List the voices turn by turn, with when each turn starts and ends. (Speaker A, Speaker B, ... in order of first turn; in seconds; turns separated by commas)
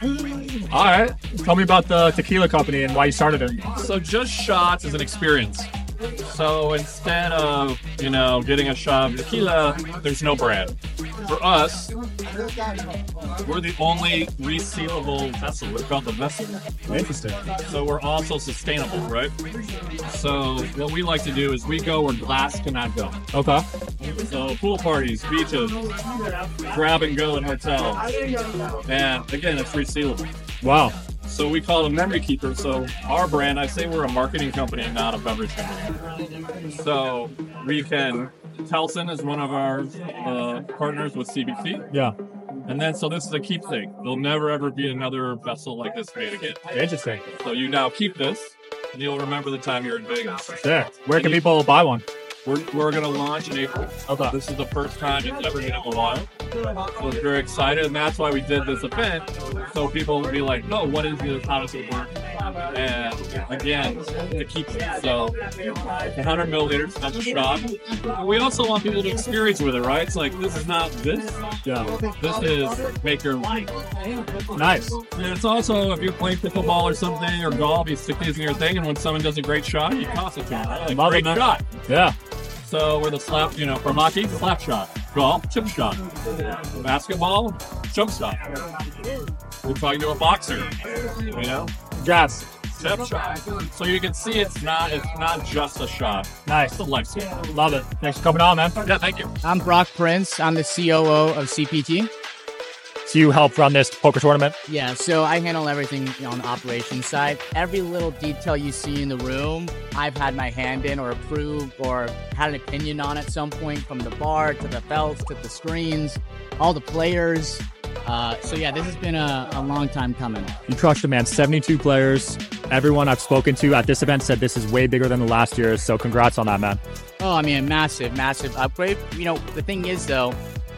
Speaker A: 0.7-1.1, Speaker B: 1.3-3.6, Speaker A: 3.8-5.7, Speaker A: 6.3-10.7, Speaker A: 11.3-11.9, Speaker A: 13.4-16.6, Speaker B: 16.9-17.4, Speaker A: 17.6-19.3, Speaker A: 20.1-23.2, Speaker B: 23.3-23.6, Speaker A: 24.2-25.9, Speaker A: 26.7-28.0, Speaker A: 28.9-30.3, Speaker B: 30.6-30.9, Speaker A: 31.3-36.0, Speaker A: 36.7-41.9, Speaker A: 42.7-46.6, Speaker B: 46.7-47.2, Speaker A: 47.4-51.4, Speaker B: 50.6-52.0, Speaker A: 52.5-56.3, Speaker B: 54.1-54.4, Speaker A: 57.0-62.2, Speaker A: 62.7-65.3, Speaker A: 66.1-71.4, Speaker B: 71.7-71.9, Speaker A: 72.0-73.7, Speaker B: 74.5-75.0, Speaker A: 75.1-81.6, Speaker B: 80.9-82.1, Speaker A: 82.6-88.4, Speaker A: 89.6-91.7, Speaker B: 92.0-92.5, Speaker A: 92.7-97.4, Speaker B: 96.5-96.8, Speaker B: 97.4-98.8, Speaker A: 98.8-99.3, Speaker C: 99.4-102.1, Speaker B: 103.1-104.6, Speaker C: 104.7-120.5, Speaker B: 120.7-126.8, Speaker C: 127.2-130.4